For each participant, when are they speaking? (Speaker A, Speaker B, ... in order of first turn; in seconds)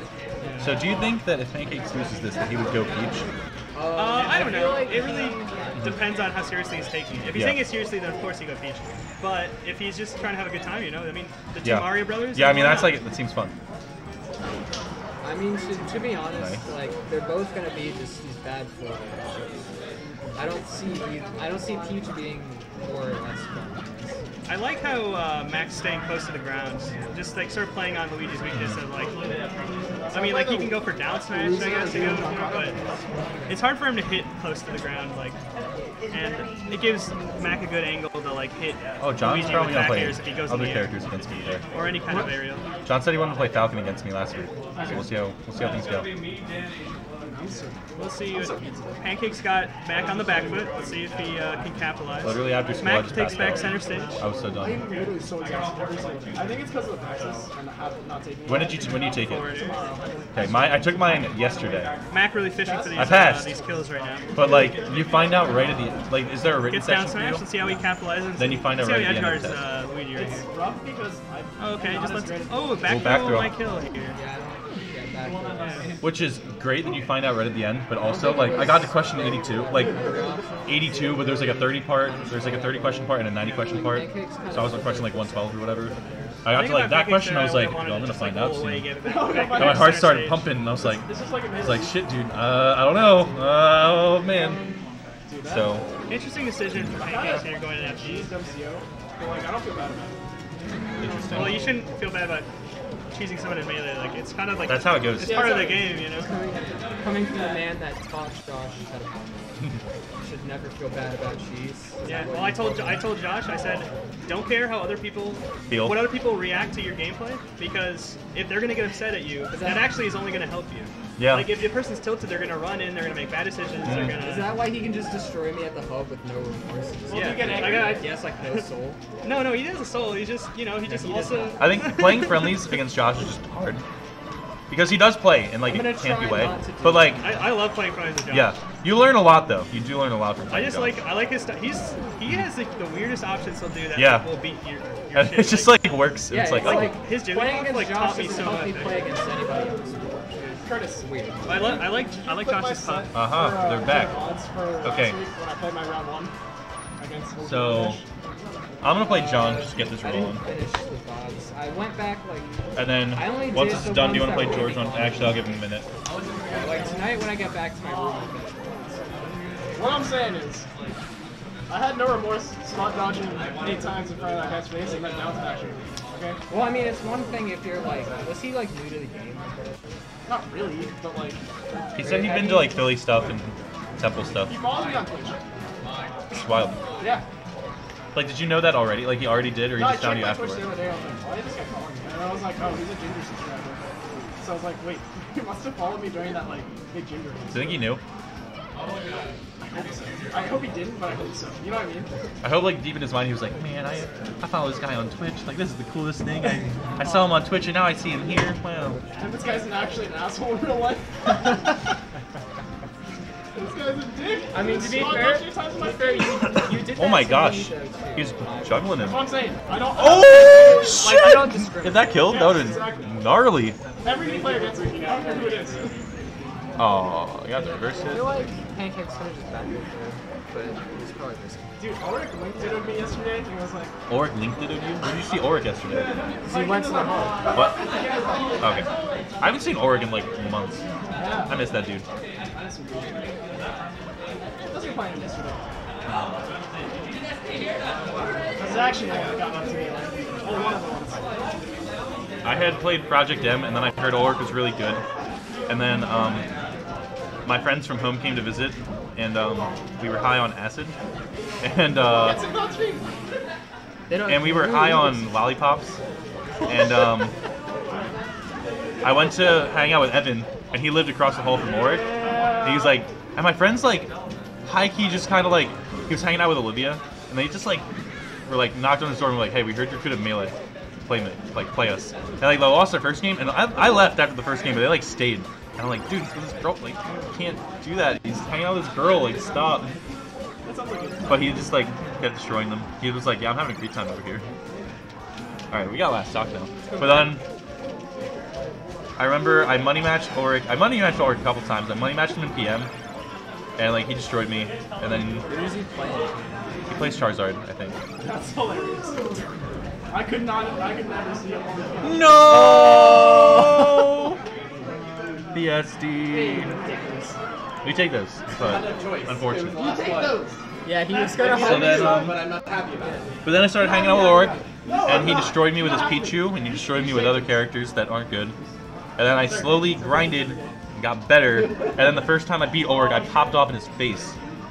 Speaker A: 0.4-0.8, 3.9-13.0, 24.5-29.2, 30.1-32.8, 33.5-35.4, 36.1-40.9, 41.7-42.6, 47.9-54.2, 59.2-59.8, 62.1-64.3, 66.7-70.5, 71.6-74.2, 75.6-75.9, 86.5-90.6, 96.1-98.3, 101.0-102.5, 103.1-106.3, 112.0-124.6, 127.1-128.6, 129.2-132.8, 137.2-138.5, 140.5-145.8, 146.6-149.1, 151.5-153.1
Speaker B: 0.6-3.3, 7.3-7.7, 11.6-13.6, 16.4-16.6, 28.5-28.8, 39.0-41.6, 42.9-46.1, 52.2-54.9, 58.5-59.5, 60.3-62.0, 63.0-63.5, 64.3-67.5, 68.4-69.6, 72.9-73.6, 76.0-80.0, 80.7-85.9, 86.4-88.9, 89.5-94.6, 95.4-95.8, 101.0-101.8, 104.7-105.5, 115.7-116.1, 121.2-121.6, 123.8-124.2, 131.6-133.8, 134.7-137.3, 138.3-141.1, 143.9-144.3, 145.1-147.0, 153.1-154.2, 154.8-155.2, 157.4-158.0, 158.8-160.5, 162.8-165.9, 181.9-184.6, 186.4-186.8, 188.1-190.7, 197.5-198.0, 202.4-209.0, 216.7-219.2, 219.9-223.8, 226.8-228.3, 234.1-236.1, 237.5-237.8, 238.6-240.8, 241.5-242.1, 246.1-246.4, 252.4-255.0, 255.7-256.5, 257.4-261.0, 261.6-262.4, 264.3-266.0, 266.7-267.3, 269.0-274.1, 274.7-277.9, 278.5-280.6, 281.1-289.9, 291.3-294.5, 295.7-297.4, 299.2-302.9, 303.8-305.5, 306.9-308.0, 312.0-314.4, 315.5-316.8, 317.8-319.9, 321.4-322.6, 323.4-328.6, 329.2-334.4
Speaker C: 3.8-5.5, 15.2-19.6, 20.4-24.2, 74.1-75.9, 78.0-86.5, 101.3-101.7, 106.1-113.1, 119.5-119.9, 124.1-129.0, 130.8-131.6, 135.7-137.5, 146.3-151.8, 159.0-165.4, 166.5-169.1, 176.5-180.0, 182.0-183.0, 214.5-219.0, 220.3-222.5, 223.9-225.9, 228.0-231.7, 236.4-237.6, 264.1-265.4, 296.9-297.4, 305.5-306.5, 312.5-313.5, 320.8-323.3
Speaker D: 30.0-33.0, 44.8-45.1, 47.3-48.9, 54.5-61.0, 62.6-63.6, 70.1-73.5, 89.0-90.0, 90.8-92.0, 94.2-95.8, 96.9-100.2, 105.2-106.1, 127.1-128.1, 150.6-156.3, 157.0-158.0, 169.8-170.7, 171.7-176.4, 180.3-181.9, 184.5-185.4, 187.0-187.2, 189.7-197.9, 199.7-202.1, 209.2-211.7, 213.6-216.7, 219.0-221.0, 222.2-223.2, 224.0-226.0, 231.8-233.9, 236.4-238.8, 241.2-241.6, 242.5-243.3, 244.6-245.7, 248.6-251.3, 262.0-263.1, 271.8-273.0, 290.6-291.6, 308.2-309.4, 310.1-312.4, 316.7-317.3, 318.6-320.6, 321.3-322.7, 323.8-327.5, 329.4-330.7